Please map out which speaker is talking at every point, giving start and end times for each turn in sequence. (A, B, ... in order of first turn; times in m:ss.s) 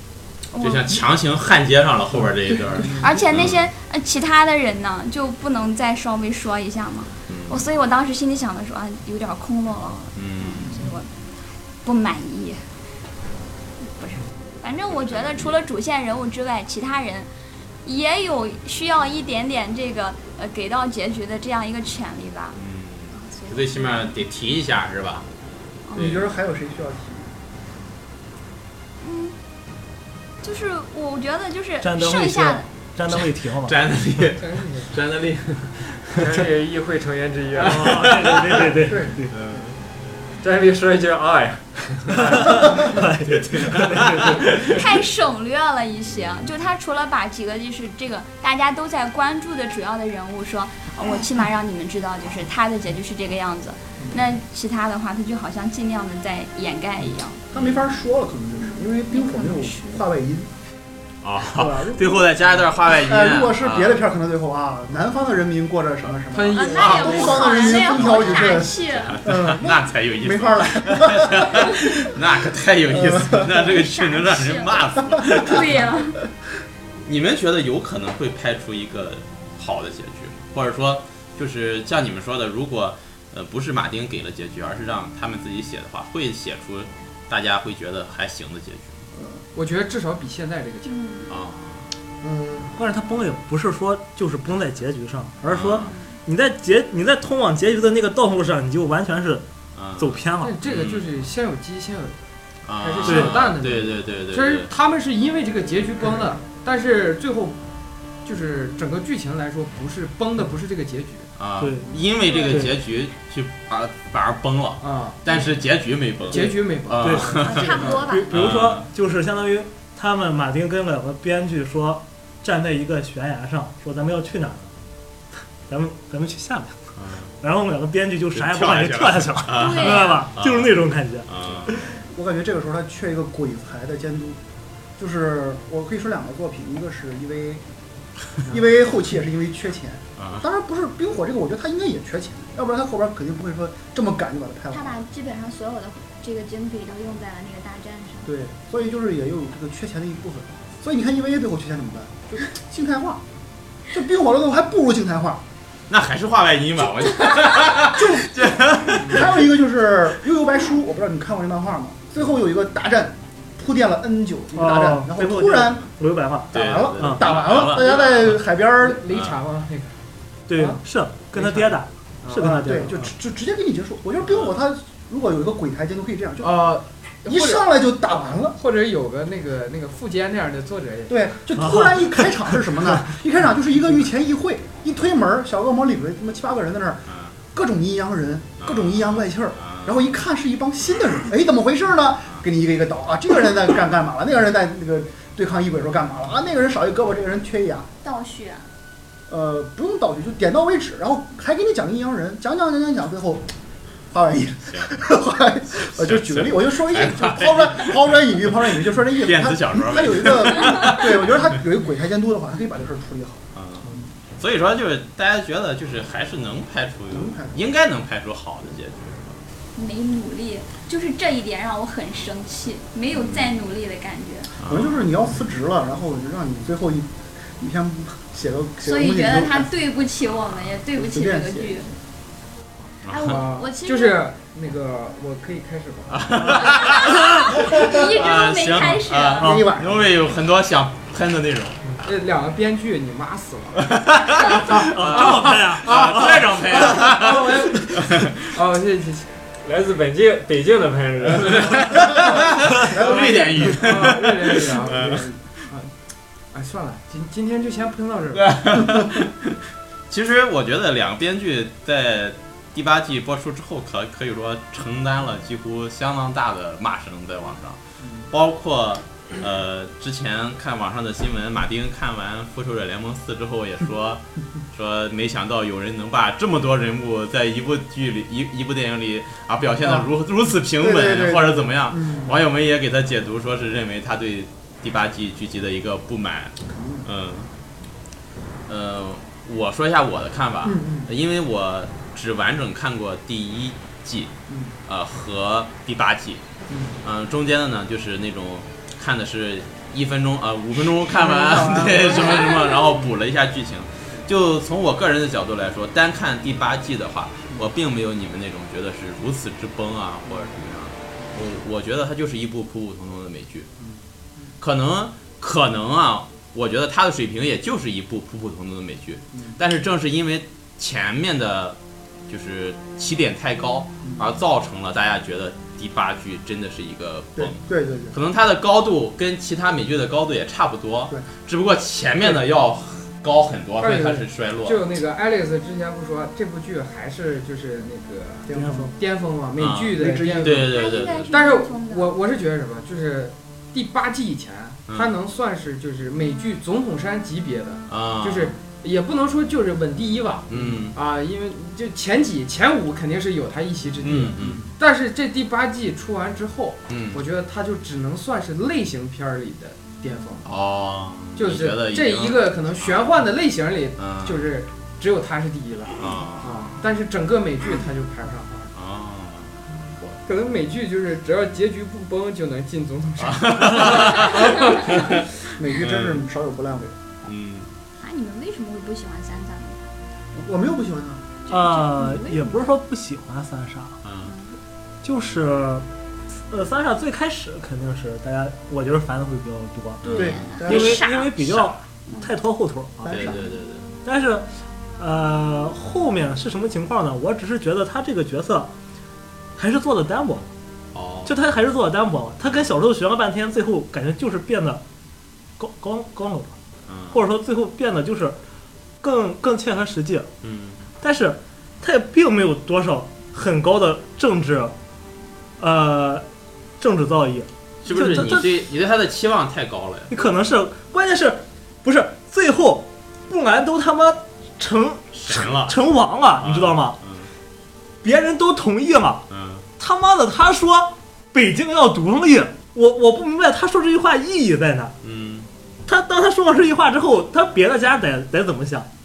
0:00.5-0:01.0 A
0:00.6-0:03.6 B
0:02.7-0:03.0 C
0:03.0-0:11.1 A
0:07.3-0:07.6 B
0:10.2-0:10.8 B
0:11.8-0:12.7 A
0:13.8-0:17.3 A
0:14.9-0:15.5 B
0:17.8-0:22.6 A
0:22.5-0:25.3 B
0:23.1-0:24.2 A
0:25.9-0:26.1 A
0:26.0-0:26.3 B
0:26.0-0:27.3 C
0:29.0-0:29.4 A
0:30.4-0:32.7 A
0:31.8-0:33.8 D
0:33.1-0:35.9 B
0:34.4-0:34.9 E
0:36.1-0:38.6 F
0:37.6-0:38.4 B
0:37.6-0:39.4 D
0:38.9-0:39.1 C
0:39.3-0:39.6 B
0:40.4-0:44.8 F
0:42.2-0:44.3 D
0:43.7-0:44.7 B
0:44.6-0:57.4 A
0:57.5-1:00.5 C
0:57.5-0:57.8 B
0:58.6-1:00.0 A
1:01.2-1:04.0 B
1:01.5-1:11.9 C
1:06.3-1:07.5 E
1:06.5-1:09.2 A
1:06.7-1:08.4 B
1:09.1-1:15.9 B
1:12.9-1:13.5 C
1:13.4-1:16.2 A
1:17.0-1:29.0 B
1:29.5-1:30.9 E
1:30.8-1:31.3 A
1:31.3-1:31.9 B
1:32.2-1:32.7 C
1:32.7-1:39.4 D
1:35.4-1:35.9 B
1:39.8-1:41.1 B
1:40.0-1:40.5 D
1:40.4-1:42.2 E
1:42.6-1:44.7 B
1:42.7-1:47.6 E
1:43.0-1:43.4 D
1:48.2-1:51.3 E
1:51.4-1:58.8 B
1:51.6-1:52.7 D
1:51.8-1:52.5 A
1:54.8-1:55.2 E
1:56.3-1:58.1 E
1:57.0-1:57.4 D
1:57.4-1:58.3 A
1:58.1-2:04.7 D
2:05.7-2:06.8 D
2:07.0-2:07.3 B
2:07.4-2:11.9 D
2:08.3-2:11.8 B
2:09.5-2:10.2 A
2:12.0-2:14.4 C
2:15.0-2:17.6 C
2:18.5-2:25.0 C
2:20.2-2:20.4 B
2:24.7-2:28.3 A
2:28.2-2:33.2 C
2:33.9-2:35.4 C
2:35.9-2:39.5 B
2:37.8-2:38.4 C
2:39.0-2:45.8 C
2:44.5-2:47.2 D
2:46.5-2:48.4 B
2:46.5-2:49.0 C
2:47.7-2:48.1 E
2:48.8-2:50.0 E
2:49.1-2:49.4 B
2:50.5-2:53.1 D
2:50.5-2:50.8 E
2:51.3-2:52.6 E
2:52.4-2:56.6 C
2:54.2-2:54.6 B
2:56.4-3:01.2 E
2:57.2-2:58.6 C
3:01.1-3:17.9 C
3:01.6-3:02.6 D
3:07.1-3:07.4 B
3:08.6-3:10.0 B
3:18.0-3:18.7 A
3:19.3-3:23.5 C
3:24.1-3:34.0 C
3:25.8-3:31.6 B
3:33.5-3:39.4 B
3:37.1-3:37.6 C
3:39.7-3:44.5 A
3:43.1-3:43.5 B
3:44.6-3:45.1 B
3:44.6-3:49.7 C
3:48.8-3:51.9 A
3:51.0-3:51.9 C
3:53.0-3:53.4 B
3:53.1-3:54.2 A
3:53.2-3:56.8 E
3:56.1-4:01.9 B
3:56.5-3:59.5 A
3:57.7-3:58.0 C
3:59.4-4:00.1 C
4:02.0-4:09.4 E
4:03.8-4:08.4 B
4:04.7-4:07.0 D
4:09.6-4:12.3 F
4:11.5-4:15.3 B
4:12.8-4:14.0 C
4:12.9-4:15.9 E
4:16.5-4:18.5 E
4:18.3-4:19.6 B
4:20.1-4:47.5 B
4:40.8-4:42.4 C
4:46.7-4:47.0 C
4:48.7-4:54.3 B
4:50.6-4:51.1 C
4:54.5-4:54.7 C
4:54.9-4:56.4 B
4:57.0-5:13.7 B
5:01.1-5:02.5 C
5:02.1-5:02.8 A
5:14.6-5:34.8 B
5:27.4-5:28.1 C
5:33.8-6:00.5 E
5:38.5-5:38.9 C
5:38.5-5:38.9 D
5:39.6-5:41.3 B
5:40.0-5:40.6 C
5:40.6-5:42.1 A
5:44.9-5:45.1 B
5:47.9-5:48.6 B
5:50.5-5:51.0 B
5:54.0-5:54.7 B
5:56.9-5:57.2 B
6:00.4-6:03.0 B
6:01.4-6:08.7 E
6:04.0-6:04.4 B
6:06.0-6:06.6 B
6:08.7-6:09.6 B
6:10.2-6:14.9 E
6:13.2-6:16.2 B
6:15.5-6:17.0 C
6:17.2-6:17.7 B
6:18.0-6:19.8 A
6:20.3-6:21.3 C
6:21.4-6:22.7 A
6:21.5-6:24.0 D
6:24.0-6:24.3 B
6:24.2-6:24.6 A
6:25.0-6:25.8 D
6:26.5-6:33.3 D
6:30.0-6:30.9 B
6:30.2-6:31.0 C
6:30.2-6:32.3 A
6:33.0-6:33.4 C
6:33.1-6:33.9 B
6:34.0-6:34.5 D
6:35.0-6:38.7 D
6:39.6-6:40.4 D
6:40.9-6:41.4 B
6:41.2-6:44.8 D
6:45.6-6:46.5 D
6:46.9-6:47.2 B
6:47.1-6:48.4 D
6:49.0-6:50.3 D
6:50.4-6:50.8 B
6:51.0-6:54.7 D
6:55.6-6:56.2 D
6:56.8-6:58.6 D
6:57.8-7:00.1 B
7:00.1-7:07.0 D
7:05.1-7:05.8 B
7:06.4-7:07.3 B
7:08.0-7:09.2 D
7:09.3-7:09.6 B
7:09.8-7:14.9 D
7:15.0-7:15.5 B
7:15.9-7:18.9 D